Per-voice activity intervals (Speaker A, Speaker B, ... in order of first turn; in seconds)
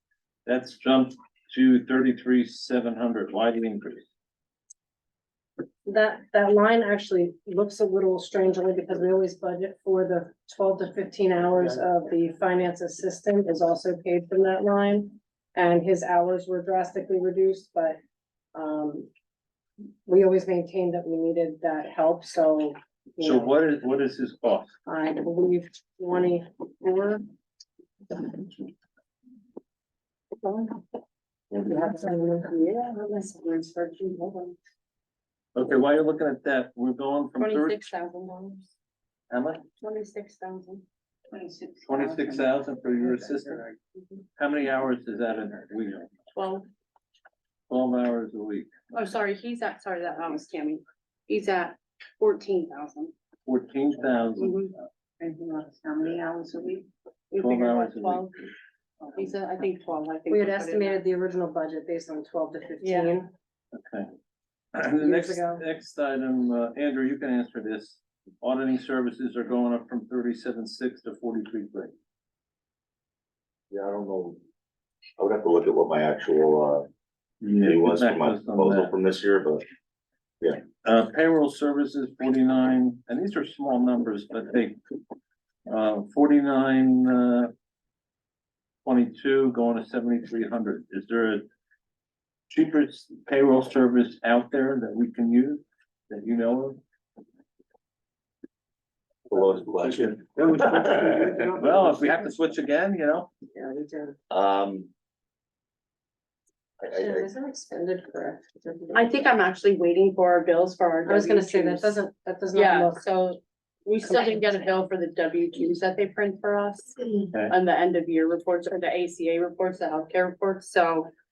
Speaker A: 0.5-4.1, 23.2-24.7, 35.5-37.8, 39.3-39.6, 41.8-43.7, 44.4-46.1, 47.7-48.7, 53.5-54.6, 57.4-58.3, 63.8-64.1, 64.7-71.9, 77.4-78.9, 80.8-84.8, 85.7-87.5, 88.8-91.4, 92.5-96.8, 101.6-103.3
Speaker B: 5.9-18.0, 18.5-19.1, 20.1-23.5, 24.9-27.3, 31.6-32.5, 60.3-63.3, 65.0-65.6, 100.5-102.3, 103.5-104.2, 106.9-109.2, 111.0-113.0, 114.0-114.4
Speaker C: 30.4-30.8, 31.6-34.6, 37.4-38.7, 39.8-42.2, 46.3-46.7, 48.9-53.1, 54.4-58.4, 59.1-61.0, 62.8-63.1, 108.9-112.0, 112.5-121.1
Speaker D: 73.7-74.4, 75.2-76.9, 77.6-79.6, 99.3-101.3, 104.3-104.9, 106.8-107.3